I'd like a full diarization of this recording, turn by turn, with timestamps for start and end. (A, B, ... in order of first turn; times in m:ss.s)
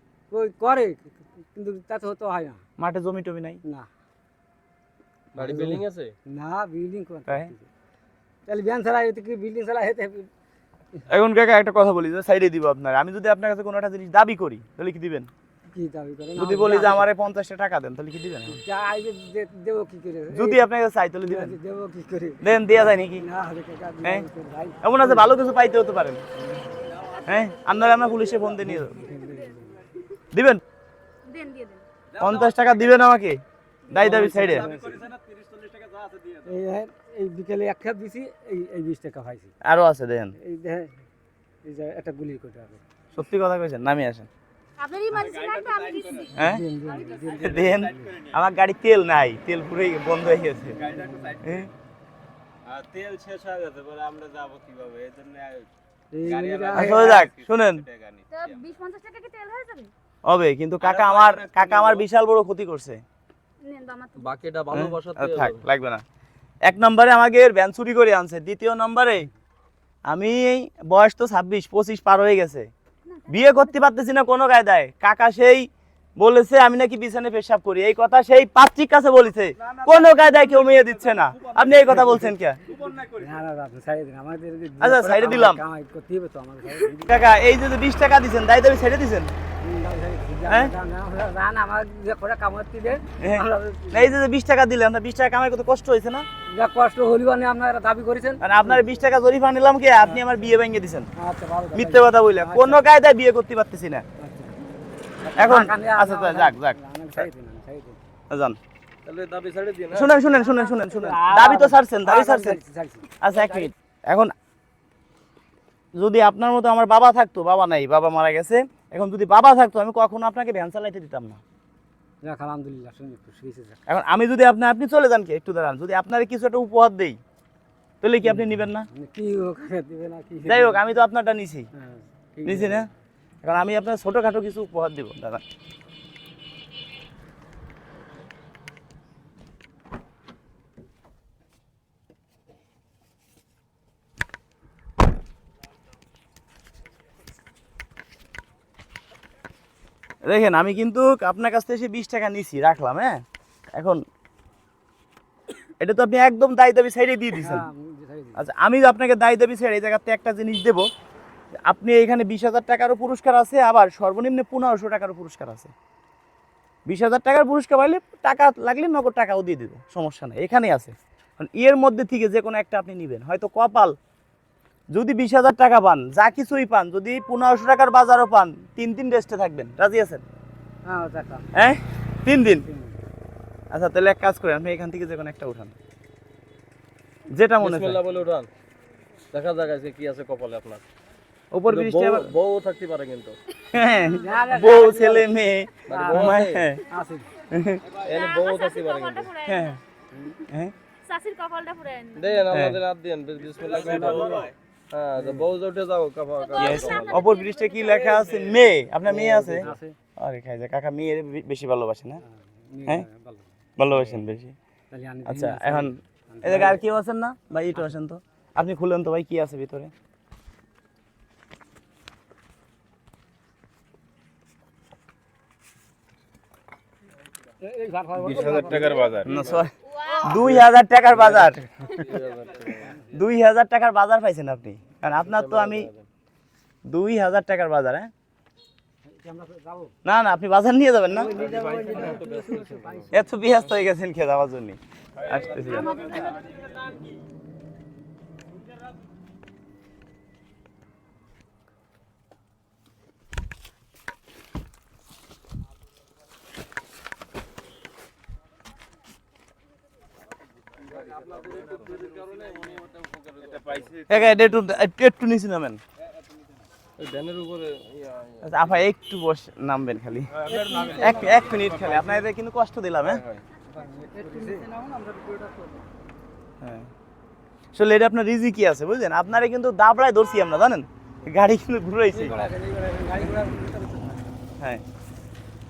0:00.3-0:02.6 A
0:02.8-0:03.6 B
0:05.3-0:06.1 C
0:05.4-0:07.7 A
0:08.5-0:10.3 A
0:11.1-0:15.3 B
0:15.7-0:17.1 A
0:16.4-0:18.6 B
0:18.5-0:20.6 A
0:20.3-0:21.6 B
0:21.2-0:25.5 A
0:22.4-0:23.2 B
0:24.8-0:26.2 B
0:26.3-0:26.8 A
0:27.2-0:29.1 B
0:28.6-0:29.9 A
0:30.3-0:30.6 B
0:31.2-0:31.8 D
0:32.2-0:34.7 B
0:34.0-0:35.1 A
0:35.1-0:36.3 E
0:36.4-0:39.5 A
0:39.6-0:40.3 B
0:40.4-0:40.9 A
0:41.6-0:42.8 A
0:43.1-0:44.3 B
0:44.8-0:47.2 D
0:46.3-0:46.6 B
0:46.4-0:48.2 A
0:47.4-0:50.8 B
0:50.8-0:51.3 A
0:50.8-0:51.4 E
0:51.4-0:51.7 B
0:52.6-0:55.7 E
0:56.1-0:57.3 A
0:56.4-0:58.2 E
0:56.7-0:57.8 B
0:58.3-0:59.9 D
1:00.2-1:03.0 B
1:00.9-1:02.0 E
1:03.6-1:04.3 D
1:04.1-1:05.6 C
1:04.7-1:06.0 B
1:06.7-1:09.3 B
1:10.1-1:12.7 B
1:13.3-1:22.6 B
1:21.9-1:27.1 A
1:24.8-1:25.6 B
1:27.0-1:29.3 B
1:29.6-1:34.2 A
1:30.5-1:30.7 B
1:33.2-1:36.2 B
1:36.5-1:38.9 A
1:38.4-1:41.1 B
1:41.2-1:42.8 A
1:41.7-1:44.0 B
1:44.2-1:44.6 A
1:45.2-1:48.0 A
1:45.4-1:47.2 B
1:48.3-1:48.6 B
1:49.0-1:50.2 C
1:49.9-1:52.6 B
1:50.3-1:53.7 A
1:53.2-1:54.3 B
1:56.0-2:01.4 B
2:02.2-2:03.8 A
2:03.9-2:07.2 B
2:08.0-2:08.9 B
2:08.2-2:11.0 A
2:10.4-2:11.7 B
2:11.7-2:12.9 A
2:12.4-2:12.9 B
2:13.4-2:15.4 B
2:30.2-2:33.2 B
2:33.7-2:34.0 B
2:35.8-2:37.6 B
2:37.3-2:38.4 A
2:38.4-2:40.8 B
2:41.6-2:45.7 B
2:46.9-2:54.0 B
2:54.9-3:00.2 B
3:00.9-3:01.5 A
3:01.5-3:02.6 B
3:02.6-3:03.0 A
3:03.7-3:05.7 B
3:07.3-3:08.0 B
3:07.6-3:08.5 C
3:09.3-3:10.8 C
3:11.5-3:12.3 B
3:11.7-3:13.4 C
3:13.7-3:16.8 B
3:14.2-3:15.3 A
3:15.9-3:16.7 C
3:15.9-3:16.4 A
3:16.9-3:17.3 A
3:17.5-3:17.8 B
3:17.9-3:19.3 C
3:18.1-3:19.8 D
3:19.5-3:19.8 B
3:20.5-3:20.7 B
3:21.0-3:22.5 D
3:22.1-3:27.3 C
3:22.5-3:22.8 B
3:23.7-3:24.5 A
3:26.5-3:28.3 D
3:26.6-3:32.2 B
3:29.0-3:29.8 C
3:29.5-3:30.0 A
3:32.3-3:33.5 A
3:33.8-3:34.6 B
3:33.9-3:34.2 C
3:34.9-3:36.8 A
3:35.2-3:39.9 B
3:47.6-3:49.2 A
3:48.3-3:49.3 E
3:48.3-3:49.6 C
3:49.2-3:51.6 B
3:49.9-3:50.4 D
3:50.4-3:53.0 C
3:53.0-3:55.9 B
3:55.2-3:56.0 C
3:56.9-3:58.1 B
3:59.1-3:59.9 A
4:00.0-4:01.3 B
4:01.1-4:03.1 A
4:01.3-4:03.1 C
4:03.1-4:06.1 B
4:06.0-4:06.3 D
4:21.2-4:23.8 C
4:21.6-4:22.5 E
4:23.5-4:24.2 E
4:24.1-4:25.8 B
4:27.0-4:28.6 C
4:28.4-4:33.2 B
4:30.4-4:31.7 E
4:30.5-4:31.5 A
4:31.7-4:32.1 C
4:33.0-4:33.4 C
4:33.7-4:35.7 A
4:36.6-4:36.9 B
4:37.7-4:42.5 B
4:42.1-4:44.3 A